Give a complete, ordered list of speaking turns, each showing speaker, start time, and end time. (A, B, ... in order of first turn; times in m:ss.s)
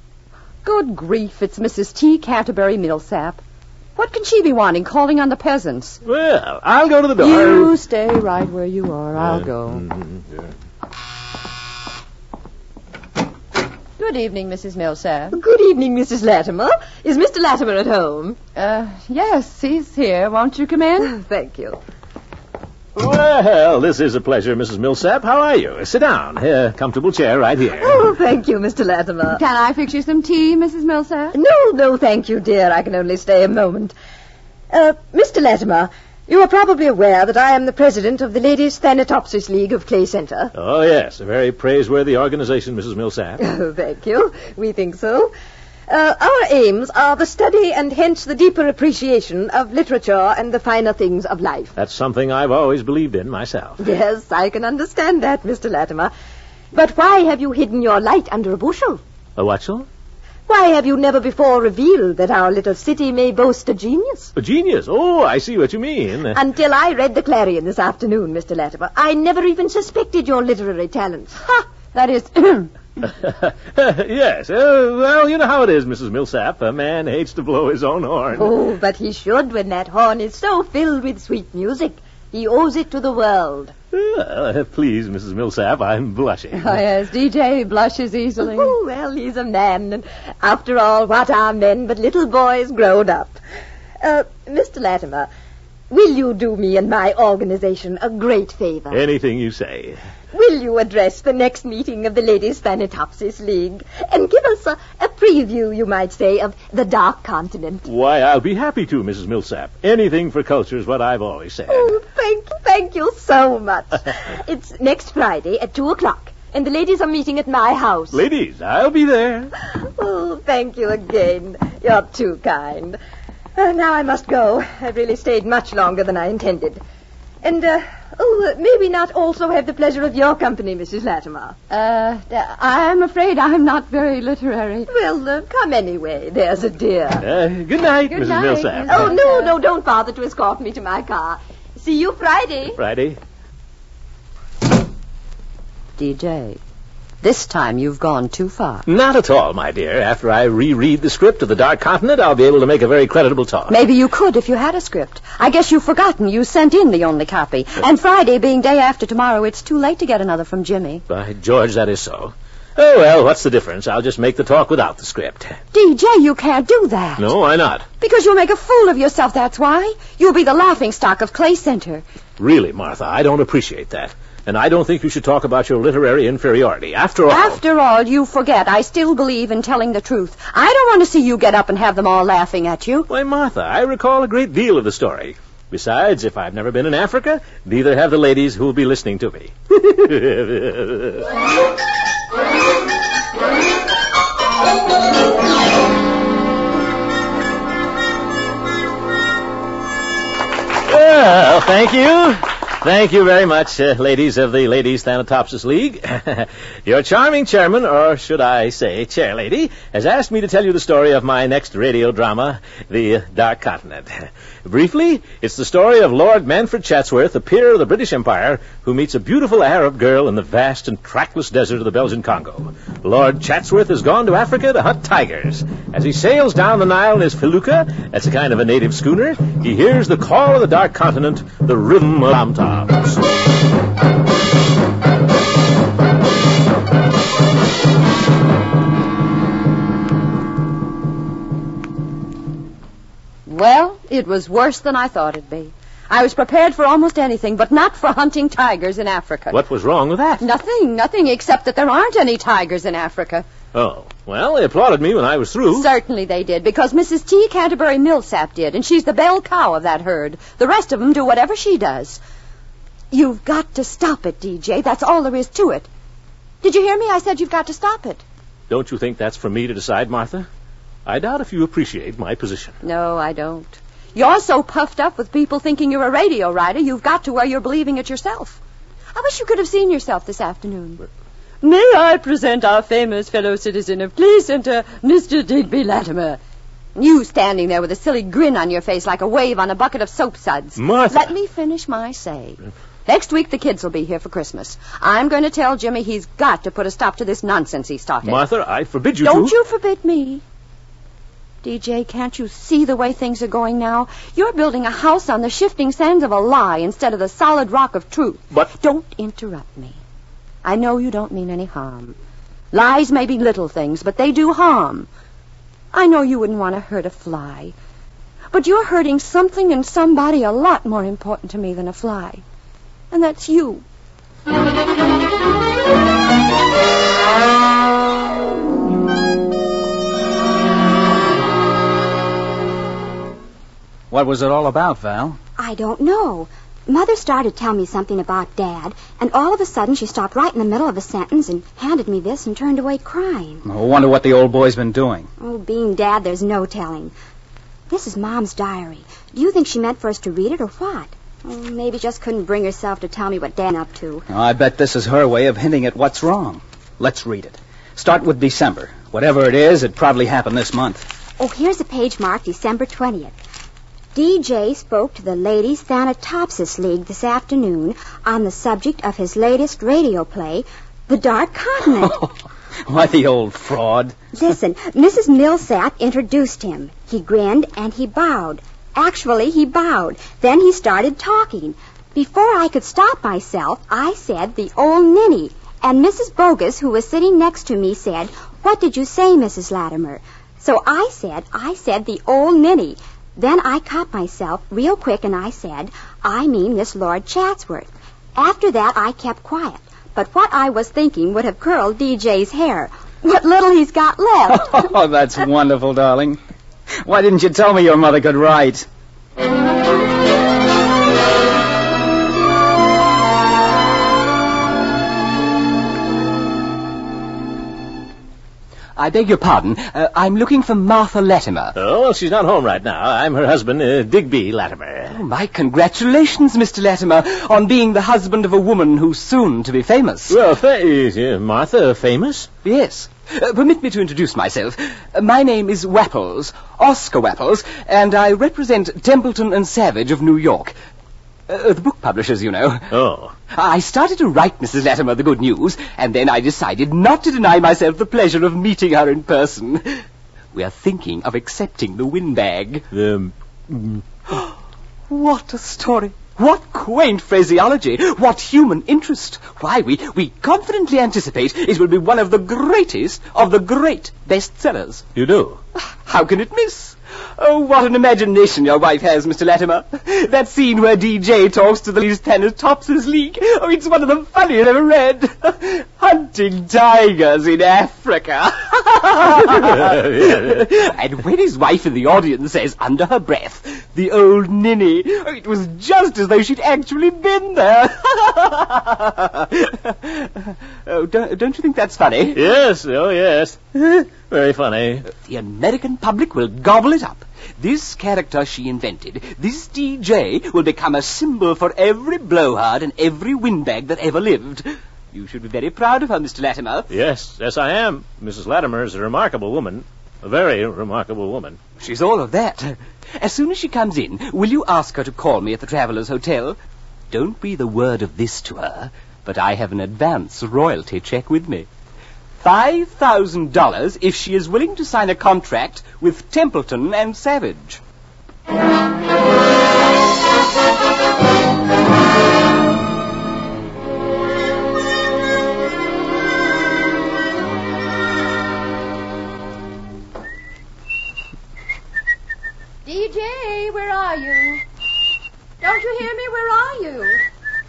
0:00.6-0:03.4 A
0:04.0-0:06.0 A
0:06.0-0:07.7 B
0:07.2-0:09.8 A
0:09.2-0:10.5 B
0:14.0-0:15.4 A
0:15.3-0:18.4 C
0:18.6-0:21.2 A
0:21.0-0:21.8 C
0:22.9-0:28.1 B
0:27.8-0:29.4 C
0:29.3-0:31.4 A
0:31.3-0:33.9 C
0:34.7-0:40.5 C
0:40.5-0:43.4 B
0:43.4-0:45.3 C
0:45.9-0:51.7 C
0:51.8-0:53.8 B
0:53.8-0:56.1 C
0:56.7-0:59.0 C
0:59.4-0:59.9 B
1:00.5-1:04.3 C
1:04.4-1:06.4 B
1:06.3-1:11.4 C
1:11.5-1:12.7 A
1:13.0-1:18.5 B
1:18.4-1:23.7 C
1:23.9-1:26.8 B
1:26.5-1:28.7 A
1:28.4-1:33.4 C
1:34.0-1:35.3 C
1:35.9-1:39.0 C
1:38.9-1:40.0 B
1:40.3-1:47.8 C
1:47.9-1:52.0 B
1:51.7-1:58.2 C
1:58.1-1:59.5 B
1:59.8-2:03.0 C
2:03.6-2:06.8 C
2:07.4-2:11.6 C
2:11.7-2:14.9 A
2:14.9-2:17.3 C
2:17.2-2:19.1 B
2:18.1-2:22.8 C
2:18.3-2:19.5 A
2:22.8-2:23.2 B
2:26.0-2:26.6 A
2:27.2-2:28.9 A
2:28.9-2:33.8 B
2:33.7-2:41.0 A
2:41.1-2:45.6 B
2:45.7-2:47.3 A
2:47.2-2:47.9 B
2:48.0-2:52.0 A
2:52.4-2:57.6 B
2:57.3-3:03.1 A
3:03.1-3:11.2 B
3:20.8-3:53.2 B
4:03.4-4:09.6 A
4:09.5-4:10.4 B
4:10.4-4:13.4 A
4:13.7-4:15.9 B
4:15.7-4:22.2 A
4:23.1-4:25.9 A
4:26.6-4:28.2 A
4:28.7-4:30.5 B
4:31.1-4:32.8 B
4:32.8-4:38.6 A
4:39.1-4:41.0 A
4:41.6-4:46.4 A
4:47.0-4:58.4 A
4:50.8-4:51.3 B
4:58.2-4:59.5 B
4:59.2-5:00.4 A
5:01.6-5:10.0 A
5:10.6-5:12.2 A
5:12.7-5:15.1 A
5:15.9-5:17.7 A
5:18.5-5:22.4 A
5:23.1-5:23.8 A
5:34.1-5:35.4 D
5:35.6-5:43.7 E
5:43.6-5:45.3 D
5:45.4-5:47.1 E
5:47.9-5:54.2 E
5:54.3-6:01.1 D
6:01.4-6:03.4 E
6:04.1-6:12.2 E
6:12.0-6:12.3 D
6:12.9-6:14.2 D
6:14.3-6:44.9 E
6:44.5-6:46.4 D
6:47.0-6:48.9 D
6:59.0-7:01.7 F
7:01.7-7:05.2 B
7:05.1-7:10.4 F
7:10.3-7:12.5 B
7:12.6-7:20.7 F
7:21.5-7:22.9 F
7:22.9-7:23.3 B
7:23.5-7:30.0 F
7:30.5-7:32.9 F
7:32.9-7:34.0 B
7:35.1-7:45.1 F
7:45.1-7:45.6 B
7:46.0-8:12.4 F
7:59.6-8:00.7 B
8:12.3-8:15.1 B
8:15.1-8:26.9 F
8:26.9-8:31.6 B
8:31.8-8:36.6 F
8:37.1-8:41.7 F
8:42.4-8:47.8 F
9:02.8-9:04.6 A
9:05.6-9:07.2 A